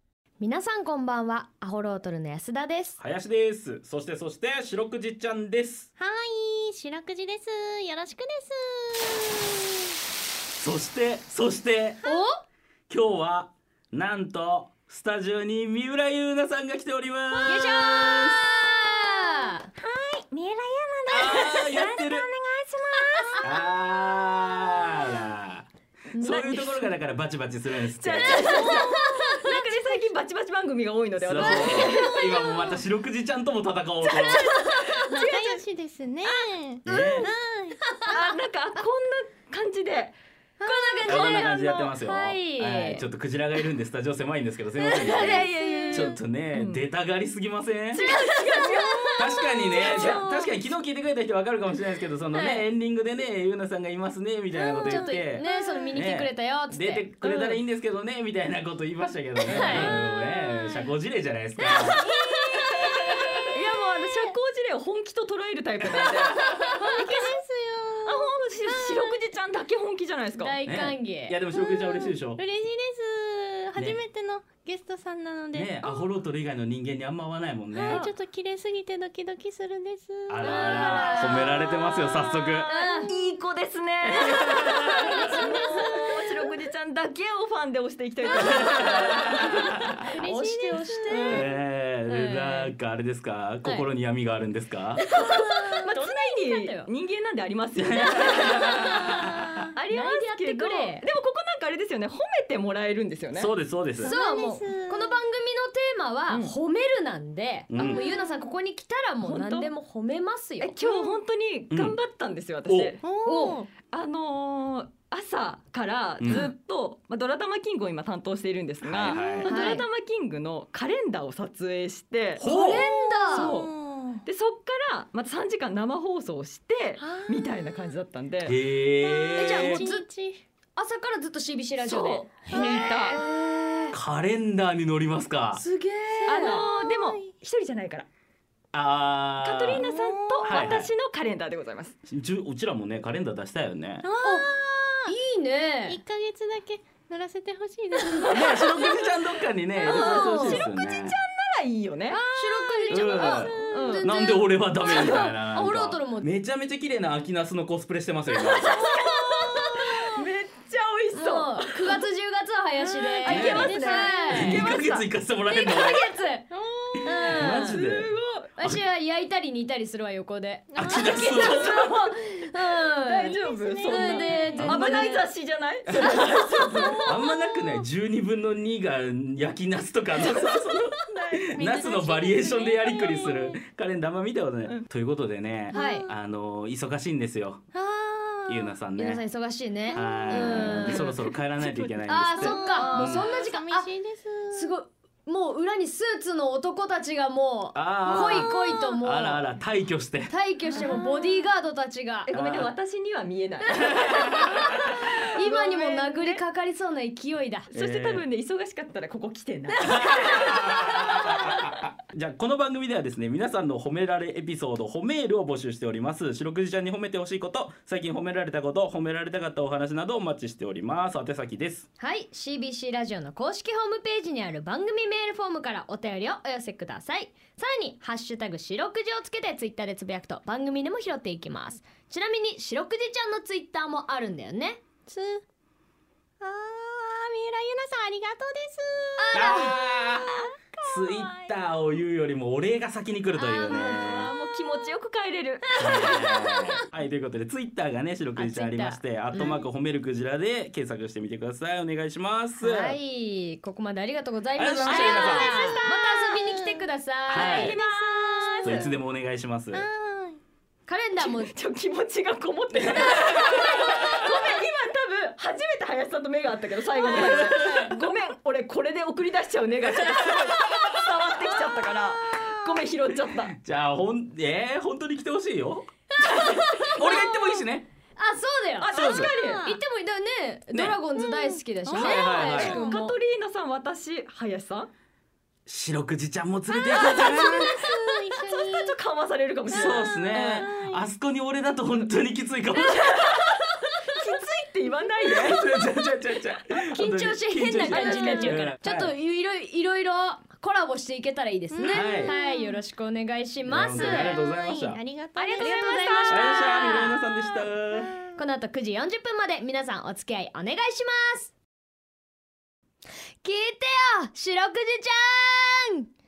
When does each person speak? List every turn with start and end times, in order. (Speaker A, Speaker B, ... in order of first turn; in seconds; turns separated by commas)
Speaker A: 0.4-3.0, Speaker B: 3.0-5.9, Speaker C: 6.0-9.7, Speaker B: 10.6-12.0, Speaker A: 12.0-12.4, Speaker B: 12.9-18.4, Speaker A: 17.4-19.7, Speaker C: 19.8-23.4, Speaker B: 21.1-22.3, Speaker D: 21.1-21.7, Speaker B: 23.4-25.6, Speaker A: 26.1-26.9, Speaker B: 26.2-28.7, Speaker D: 27.8-32.2, Speaker C: 28.4-29.2, Speaker A: 28.4-29.6, Speaker B: 31.2-34.5, Speaker A: 31.6-32.5, Speaker D: 34.0-35.5, Speaker C: 34.2-38.0, Speaker A: 34.6-35.5, Speaker D: 36.2-36.5, Speaker B: 36.9-37.3, Speaker A: 36.9-37.2, Speaker D: 38.0-40.1, Speaker C: 40.6-41.5, Speaker A: 40.6-43.0, Speaker B: 41.1-48.0, Speaker A: 44.8-46.2, Speaker D: 45.0-45.8, Speaker C: 45.6-46.0, Speaker D: 46.5-46.9, Speaker D: 47.9-49.2, Speaker A: 48.5-49.0, Speaker C: 49.1-50.5, Speaker B: 49.2-62.1, Speaker D: 49.7-50.3, Speaker A: 52.3-52.6, Speaker C: 54.7-56.0, Speaker A: 54.7-57.4, Speaker D: 57.2-57.5, Speaker A: 59.4-59.9, Speaker D: 59.5-59.9, Speaker C: 59.7-60.9, Speaker C: 61.6-63.1, Speaker A: 61.8-63.2, Speaker D: 63.5-67.3, Speaker A: 66.4-66.8, Speaker C: 66.8-69.2, Speaker D: 68.0-70.5, Speaker A: 70.4-71.3, Speaker B: 70.7-72.4, Speaker C: 71.5-76.0, Speaker B: 75.5-78.1, Speaker C: 77.7-83.1, Speaker B: 80.3-82.7, Speaker A: 80.4-81.7, Speaker A: 82.6-83.1, Speaker D: 83.0-89.3, Speaker B: 84.4-85.0, Speaker A: 84.7-86.1, Speaker C: 85.0-86.0, Speaker A: 88.4-92.7, Speaker C: 89.7-91.4, Speaker D: 91.1-91.5, Speaker B: 91.3-95.0, Speaker A: 93.6-93.9, Speaker A: 95.0-96.9, Speaker D: 95.1-99.1, Speaker B: 97.7-99.1, Speaker A: 98.0-101.0, Speaker D: 99.7-103.5, Speaker B: 103.3-104.1, Speaker C: 104.0-105.2, Speaker A: 104.0-110.8, Speaker D: 106.3-106.5, Speaker B: 107.7-108.0, Speaker C: 107.8-108.4, Speaker D: 109.2-109.7, Speaker D: 110.6-113.0, Speaker C: 110.8-111.2, Speaker B: 111.7-112.0, Speaker B: 112.7-113.0, Speaker C: 113.0-113.7, Speaker A: 113.2-113.6, Speaker D: 113.9-122.5, Speaker B: 116.2-116.5, Speaker B: 118.8-119.5, Speaker A: 119.1-119.8, Speaker B: 122.4-122.9, Speaker A: 122.5-123.5, Speaker C: 122.7-124.2, Speaker D: 123.3-123.7, Speaker D: 124.2-128.6, Speaker C: 127.0-127.9, Speaker B: 128.4-129.8, Speaker C: 129.0-130.4, Speaker A: 129.4-130.1, Speaker A: 130.8-133.9, Speaker D: 131.8-133.2, Speaker B: 132.5-133.1, Speaker B: 133.9-135.6, Speaker A: 135.5-136.6, Speaker D: 136.2-138.1, Speaker C: 136.3-137.2, Speaker B: 138.7-139.8, Speaker D: 139.4-141.9, Speaker C: 139.7-140.6, Speaker B: 140.4-140.9, Speaker B: 142.1-144.0, Speaker C: 144.0-145.1, Speaker A: 144.2-144.5, Speaker A: 145.1-146.0, Speaker C: 145.9-149.1, Speaker B: 148.3-151.2, Speaker A: 149.8-150.7, Speaker D: 149.8-152.2, Speaker C: 152.1-154.0, Speaker A: 152.3-156.2, Speaker B: 152.9-158.9, Speaker D: 153.7-154.1, Speaker D: 158.5-162.0, Speaker A: 159.2-160.0, Speaker A: 161.1-164.8, Speaker C: 162.9-164.9, Speaker D: 163.2-164.7, Speaker B: 163.3-166.0, Speaker A: 165.4-166.5, Speaker D: 166.5-168.5, Speaker B: 167.0-168.8, Speaker A: 167.0-167.8, Speaker A: 168.6-175.3, Speaker C: 170.7-171.7, Speaker B: 170.7-172.0, Speaker D: 171.5-171.9, Speaker D: 173.0-177.0, Speaker C: 173.3-174.8, Speaker B: 174.6-175.1, Speaker C: 176.7-177.8, Speaker B: 177.0-187.6, Speaker C: 181.2-183.6, Speaker C: 185.7-186.1, Speaker A: 185.7-186.1, Speaker C: 187.7-188.7, Speaker B: 188.5-189.2, Speaker A: 189.0-191.1, Speaker C: 189.9-191.2, Speaker B: 189.9-193.3, Speaker C: 191.8-194.7, Speaker A: 192.0-193.9, Speaker A: 194.5-199.5, Speaker B: 197.7-200.3, Speaker C: 198.1-198.8, Speaker A: 200.3-202.3, Speaker C: 200.7-201.5, Speaker D: 200.7-201.0, Speaker D: 202.2-206.4, Speaker B: 202.3-202.7, Speaker A: 204.0-207.7, Speaker B: 204.1-204.6, Speaker D: 207.7-210.6, Speaker B: 207.7-208.2, Speaker B: 209.8-221.8, Speaker A: 210.3-211.5, Speaker A: 222.0-234.8, Speaker C: 235.1-235.4, Speaker C: 236.4-241.3, Speaker A: 239.2-239.7, Speaker B: 239.3-244.3, Speaker A: 243.3-244.4, Speaker D: 243.7-245.7, Speaker A: 245.7-246.8, Speaker B: 245.8-253.0, Speaker A: 248.3-249.6, Speaker A: 252.6-258.9, Speaker B: 254.6-255.6, Speaker D: 254.8-255.8, Speaker C: 254.9-258.9, Speaker B: 257.3-257.8, Speaker D: 257.6-258.7, Speaker B: 258.6-259.9, Speaker C: 259.7-260.4, Speaker A: 260.9-261.5, Speaker D: 261.2-273.6, Speaker B: 267.2-267.4, Speaker B: 273.6-277.9, Speaker A: 276.1-277.6, Speaker A: 278.2-283.1, Speaker D: 278.8-279.7, Speaker B: 278.9-279.3, Speaker C: 279.2-279.7, Speaker B: 280.7-281.0, Speaker C: 281.1-282.3, Speaker B: 281.9-282.8, Speaker D: 282.0-284.9, Speaker B: 285.7-287.8, Speaker C: 286.9-288.9, Speaker A: 286.9-288.6, Speaker D: 288.4-290.8, Speaker B: 289.7-293.6, Speaker C: 289.8-291.0, Speaker D: 293.0-295.6, Speaker B: 295.2-299.1, Speaker A: 296.8-304.4, Speaker D: 297.9-298.7, Speaker C: 301.7-302.8, Speaker B: 301.9-302.3, Speaker B: 303.6-305.0, Speaker C: 304.0-307.7, Speaker A: 305.4-307.2, Speaker B: 306.2-308.2, Speaker A: 308.4-311.5, Speaker A: 313.4-316.1